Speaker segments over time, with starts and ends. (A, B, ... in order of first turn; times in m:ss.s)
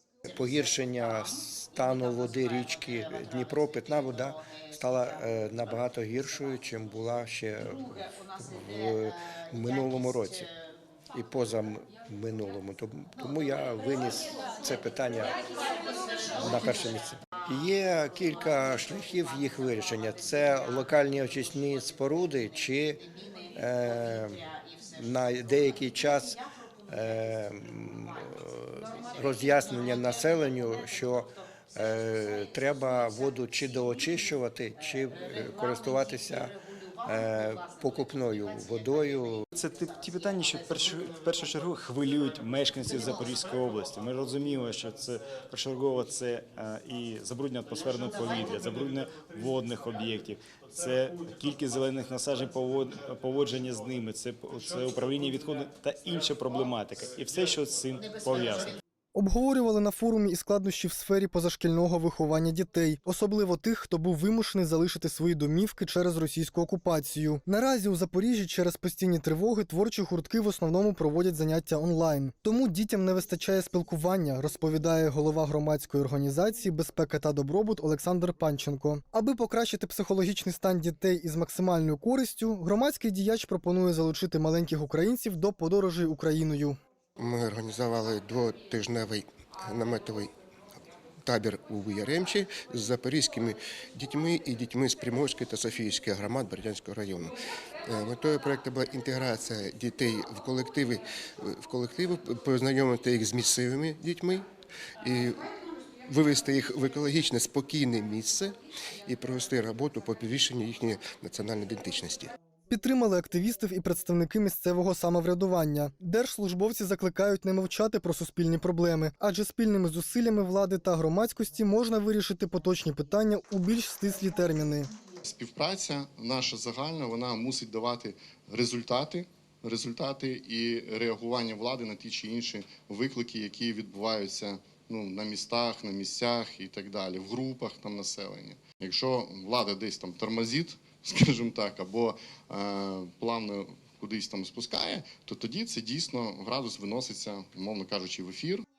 0:00.2-0:10.5 A
0:11.1-0:15.4 A
0:16.3-0:39.4 A
0:39.5-0:58.8 B
0:59.1-1:26.8 C
1:27.2-1:30.3 D
1:31.2-1:37.4 D
1:37.9-1:44.5 D
1:45.0-1:45.5 D
1:46.1-1:52.3 D
1:52.7-2:04.9 C
2:05.2-2:28.6 E